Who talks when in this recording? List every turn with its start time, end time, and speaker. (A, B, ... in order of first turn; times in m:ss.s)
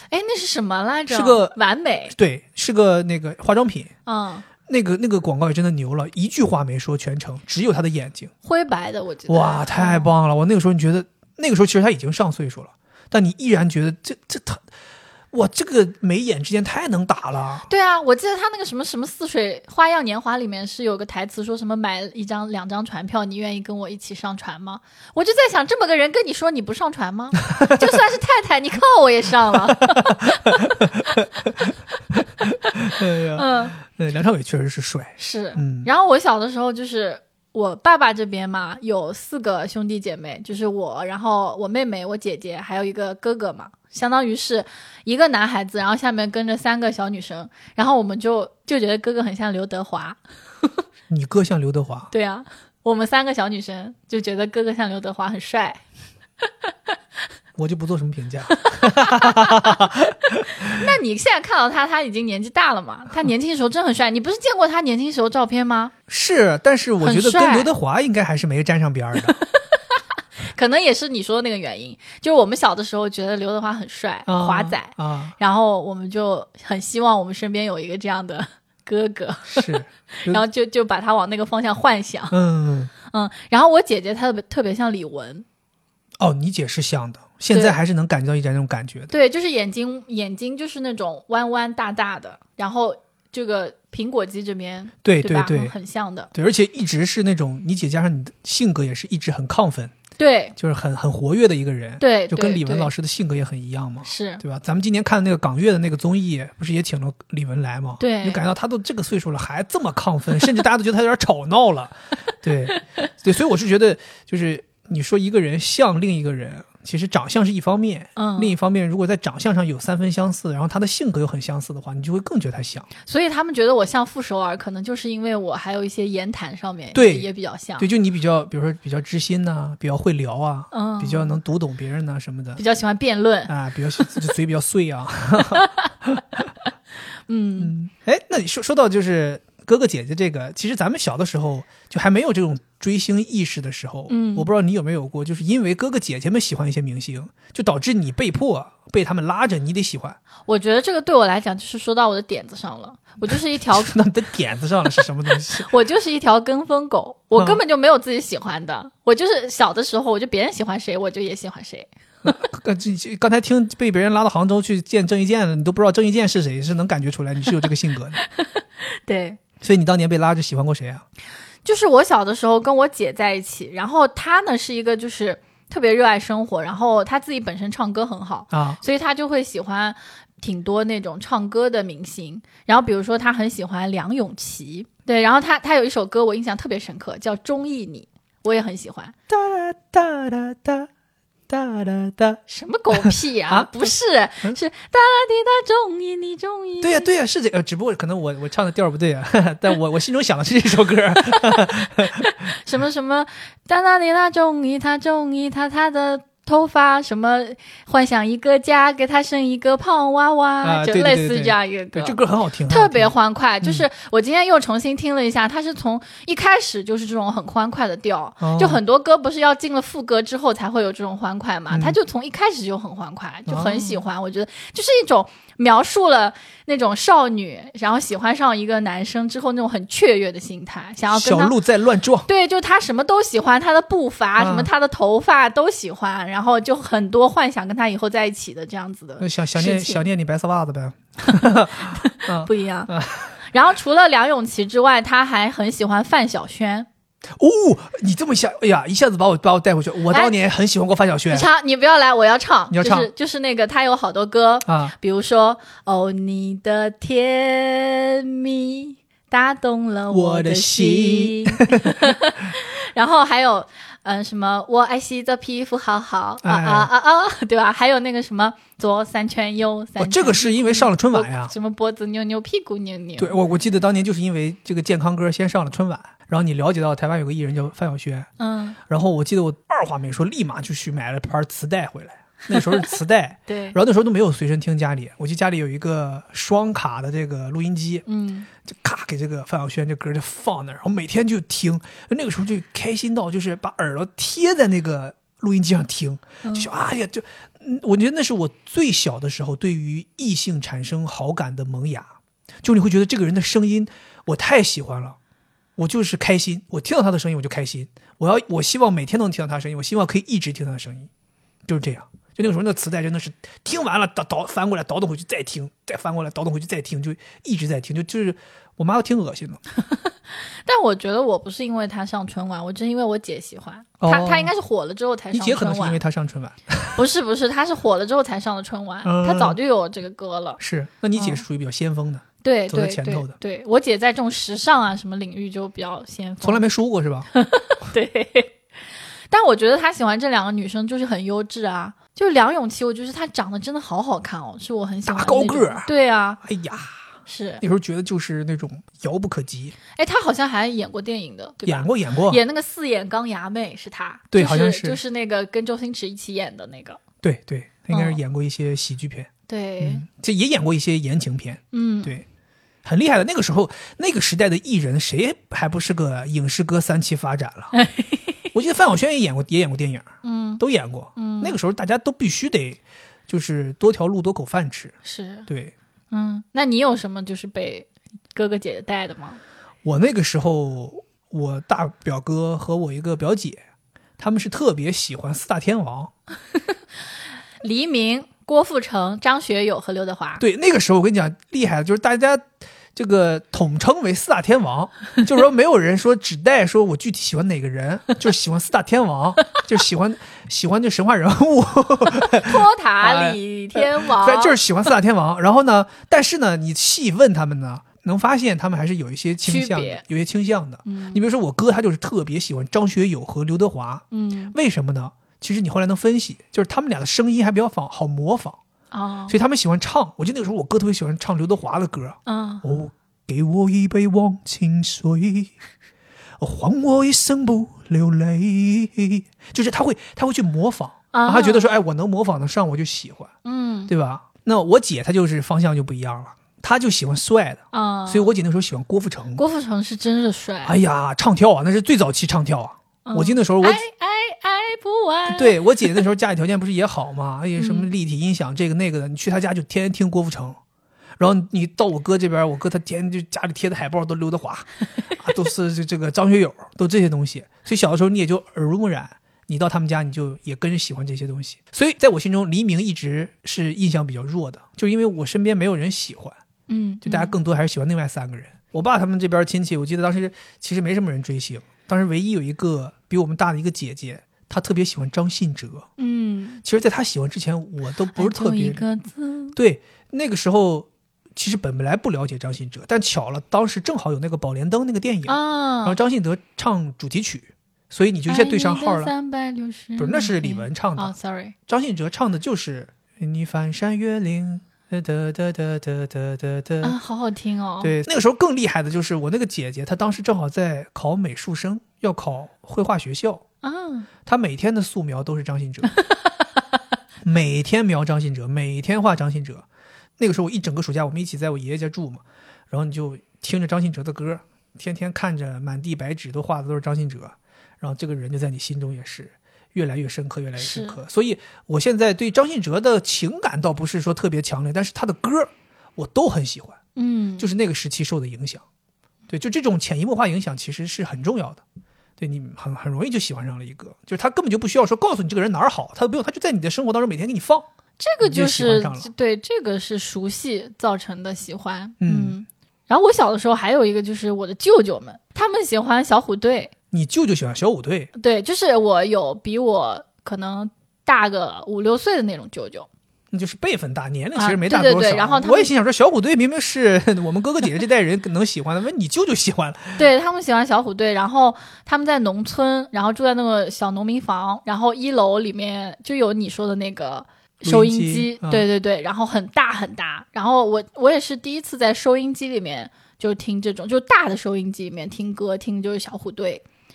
0:00.1-0:02.1 A
0:01.1-0:01.6 B
0:02.1-0:03.9 B
0:04.0-0:04.5 A
0:04.6-0:08.3 B
0:08.4-0:10.1 A
0:09.3-0:14.6 B
0:15.3-0:17.7 B
0:17.7-0:30.8 A
0:27.5-0:27.8 B
0:29.8-0:35.9 B
0:33.3-0:33.7 A
0:35.2-0:50.2 A
0:51.1-0:52.1 B
0:52.1-0:55.8 A
0:57.6-1:00.8 B
0:58.5-0:59.8 A
1:00.6-1:05.9 A
1:06.1-1:09.4 B
1:07.0-1:07.7 A
1:09.4-1:09.8 A
1:10.5-1:22.4 A
1:14.3-1:15.3 B
1:19.5-1:20.4 B
1:22.3-1:22.9 B
1:23.0-1:25.4 A
1:26.2-1:29.1 B
1:27.5-1:27.8 A
1:29.1-1:36.3 A
1:35.0-1:35.7 B
1:36.3-1:39.9 B
1:40.2-1:40.5 A
1:40.6-2:02.9 B
1:42.0-1:42.9 A
1:44.0-1:44.4 A
1:48.0-1:48.4 A
1:58.2-1:58.5 A
2:03.1-2:07.9 A
2:06.9-2:07.3 B
2:07.8-2:12.6 B
2:10.7-2:11.3 A
2:12.6-2:14.1 A
2:13.5-2:16.4 B
2:15.5-2:15.8 A
2:17.3-2:17.7 A
2:17.6-2:30.2 B
2:24.1-2:24.5 A
2:30.5-2:34.0 A
2:33.3-2:35.7 B
2:35.5-2:41.9 A
2:37.4-2:37.6 B
2:42.2-2:48.2 B
2:48.2-2:49.4 A
2:49.6-2:51.0 B
2:51.6-3:09.1 A
2:58.5-2:58.8 B
3:09.3-3:10.9 B
3:11.5-3:12.4 B
3:12.5-3:17.1 A
3:13.0-3:13.9 B
3:16.8-3:22.3 B
3:22.2-3:51.6 A
3:30.6-3:33.8 B
3:38.4-3:38.8 B
3:41.7-3:42.0 B
3:43.5-3:44.0 B
3:51.1-3:52.3 B
3:52.2-4:00.0 A
3:54.4-3:54.7 B
3:59.2-4:03.4 B
4:01.9-4:02.9 A
4:03.5-4:06.9 A
4:07.4-4:11.5 B
4:11.3-4:33.4 A
4:12.7-4:13.1 B
4:14.6-4:14.9 B
4:20.1-4:22.1 B
4:26.4-4:26.9 B
4:30.0-4:31.5 B
4:33.2-4:38.3 B
4:38.4-4:38.8 A
4:38.8-4:48.0 B
4:42.6-4:42.9 A
4:43.5-4:43.8 A
4:48.1-4:48.5 A
4:48.6-5:05.2 B
4:56.4-4:56.7 A
5:05.8-5:11.1 B
5:11.6-5:19.6 B
5:19.9-5:26.0 A
5:24.0-5:24.5 B
5:25.3-5:27.0 B
5:26.9-5:30.6 A
5:29.0-5:29.6 B
5:30.6-5:33.4 B
5:31.2-5:31.4 A
5:32.4-5:36.6 A
5:36.4-5:37.3 B
5:37.3-5:38.6 A
5:39.3-5:46.4 A
5:45.1-5:45.9 B
5:46.4-5:47.0 B
5:47.2-5:47.6 A
5:47.6-5:49.8 B
5:50.0-5:57.0 A
5:51.6-5:52.4 B
5:54.3-5:55.0 B
5:57.2-6:02.2 B
5:57.9-5:58.2 A
5:59.5-6:00.0 A
6:01.7-6:02.1 A
6:02.8-6:07.7 B
6:07.7-6:08.3 A
6:08.5-6:15.0 B
6:10.2-6:10.6 A
6:11.2-6:11.6 A
6:15.0-6:15.5 A
6:15.5-6:15.7 B
6:16.1-6:19.4 A
6:19.8-6:23.6 B
6:24.2-6:26.1 B
6:27.6-6:30.4 A
6:30.4-6:58.6 B
6:42.2-6:44.6 A
6:49.4-6:50.0 A
6:50.8-6:51.2 A
6:54.1-6:54.5 A
6:58.9-6:59.3 A
6:59.3-7:05.5 B
7:02.2-7:02.6 A
7:06.4-7:13.3 B
7:11.1-7:11.7 A
7:13.4-7:13.9 A
7:13.9-7:19.4 B
7:17.7-7:18.3 A
7:19.4-7:20.8 A
7:20.6-7:23.8 B
7:23.0-7:26.0 A
7:25.3-7:30.6 B
7:27.6-7:27.9 A
7:31.2-7:46.4 B
7:46.7-7:47.3 A
7:47.0-7:55.9 B
7:56.0-7:56.6 A
7:56.6-7:58.8 B
7:58.1-7:59.6 A
7:59.6-8:09.1 B
8:05.3-8:06.0 A
8:08.3-8:11.5 A
8:10.0-8:11.1 B
8:11.7-8:17.0 B
8:16.8-8:17.9 A
8:17.8-8:23.4 B
8:23.6-8:24.1 A
8:24.2-8:25.9 B
8:27.2-8:29.6 B
8:30.2-8:46.8 B
8:40.6-8:41.0 A
8:47.0-8:47.5 A
8:47.4-8:48.6 B
8:49.3-8:51.6 B
8:52.2-8:57.7 B
8:58.0-9:06.7 A
8:58.2-8:59.1 B
9:02.0-9:02.4 B
9:06.9-9:08.1 B
9:08.2-9:12.9 A
9:13.3-9:20.0 B
9:14.4-9:15.7 A
9:20.0-9:36.6 A
9:27.6-9:28.6 B